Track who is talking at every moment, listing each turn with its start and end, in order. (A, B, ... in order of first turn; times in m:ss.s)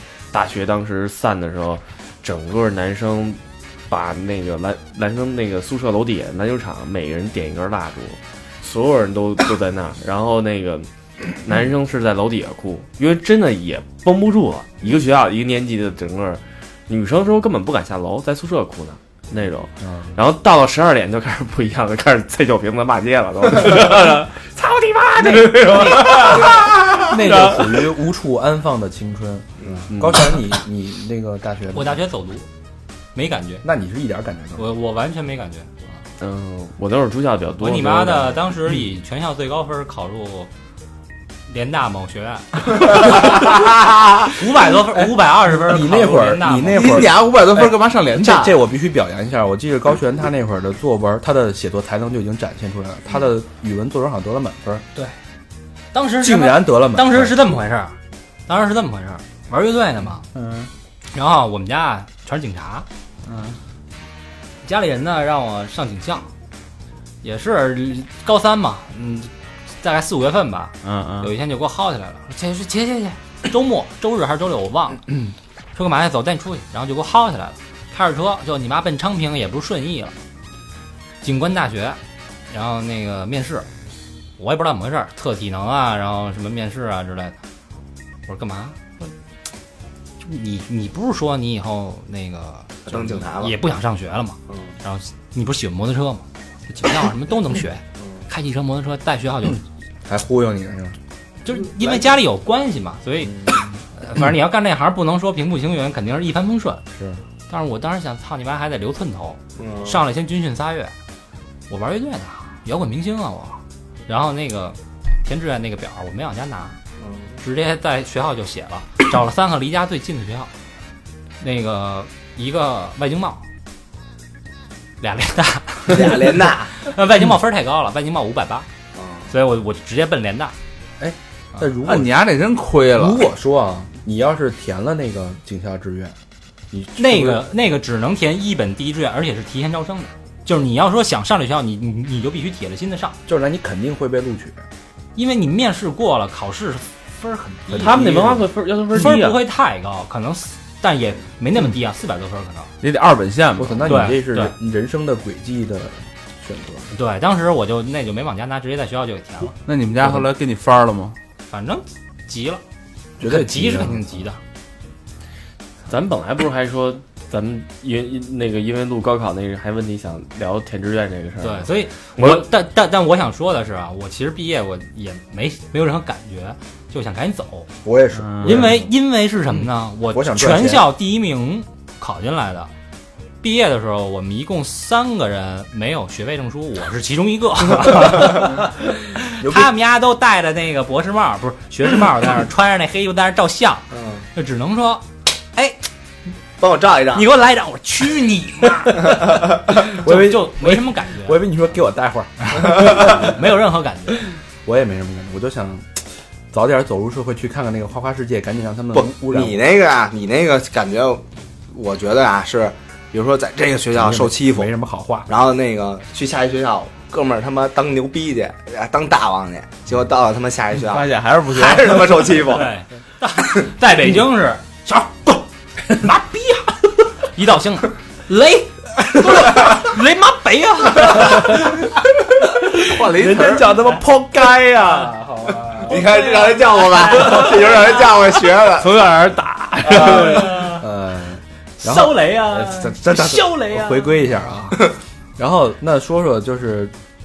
0:00.3-0:27.8 A
0:19.8-0:20.2 B
0:25.2-0:32.0 B
0:29.9-0:30.4 A
0:31.7-0:32.5 C
0:33.1-0:33.6 C
0:33.6-0:34.7 B
0:34.6-0:35.7 C
0:36.2-0:38.4 A
0:37.6-0:40.5 C
0:41.5-0:43.0 C
0:43.0-0:44.3 D
0:44.3-0:46.9 C
0:45.5-0:47.1 B
0:46.7-0:48.6 E
0:48.2-0:54.8 B
0:55.9-0:58.0 C
0:56.2-0:57.5 B
0:58.5-1:00.2 C
1:00.3-1:00.7 E
1:01.1-1:02.8 C
1:03.2-1:03.6 E
1:04.6-1:06.3 C
1:07.2-1:09.3 C
1:09.8-1:15.0 C
1:10.8-1:11.3 E
1:15.7-1:20.1 C
1:21.2-1:23.7 C
1:24.4-1:27.4 C
1:28.3-1:28.8 C
1:30.2-1:39.6 C
1:32.8-1:33.6 D
1:34.5-1:34.7 D
1:40.0-1:41.0 B
1:41.4-1:46.8 C
1:41.7-1:42.0 D
1:43.3-1:43.8 B
1:46.9-1:47.2 B
1:47.5-1:50.9 C
1:49.6-1:50.0 D
1:51.7-1:56.8 C
1:57.0-1:57.4 D
1:57.4-2:00.5 C
2:01.4-2:03.4 C
2:05.0-2:08.7 C
2:05.9-2:06.7 D
2:08.9-2:09.3 D
2:09.3-2:10.5 C
2:11.0-2:12.1 B
2:11.8-2:13.2 E
2:13.0-2:16.1 B
2:16.7-2:17.4 B
2:17.0-2:23.2 C
2:23.3-2:24.6 B
2:25.2-2:28.0 C
2:27.7-2:28.4 B
2:27.8-2:29.4 A
2:28.9-2:32.7 C
2:32.8-2:34.0 E
2:33.6-2:36.9 B
2:33.8-2:34.5 C
2:36.9-2:39.5 C
2:39.6-2:41.2 E
2:41.5-2:42.6 C
2:43.2-2:44.2 B
2:43.2-2:44.4 C
2:45.9-2:52.5 A
2:51.4-2:57.7 C
2:57.8-2:58.9 B
2:58.2-2:58.7 E
2:58.4-3:02.7 C
2:59.5-3:00.8 B
3:03.4-3:15.8 C
3:09.4-3:09.7 B
3:13.9-3:14.3 D
3:16.6-3:17.2 D
3:17.1-3:21.4 C
3:19.8-3:23.4 B
3:22.4-3:24.2 C
3:24.6-3:29.6 B
3:28.9-3:34.7 D
3:33.9-3:35.3 B
3:35.3-3:42.7 D
3:40.8-3:42.4 E
3:42.4-3:52.0 C
3:52.6-3:52.9 C
3:52.8-3:53.8 E
3:53.1-3:55.1 B
3:53.5-3:54.0 C
3:54.8-3:58.2 C
3:55.8-3:58.9 D
3:59.8-4:00.8 C
3:59.9-4:06.9 B
4:01.8-4:04.3 C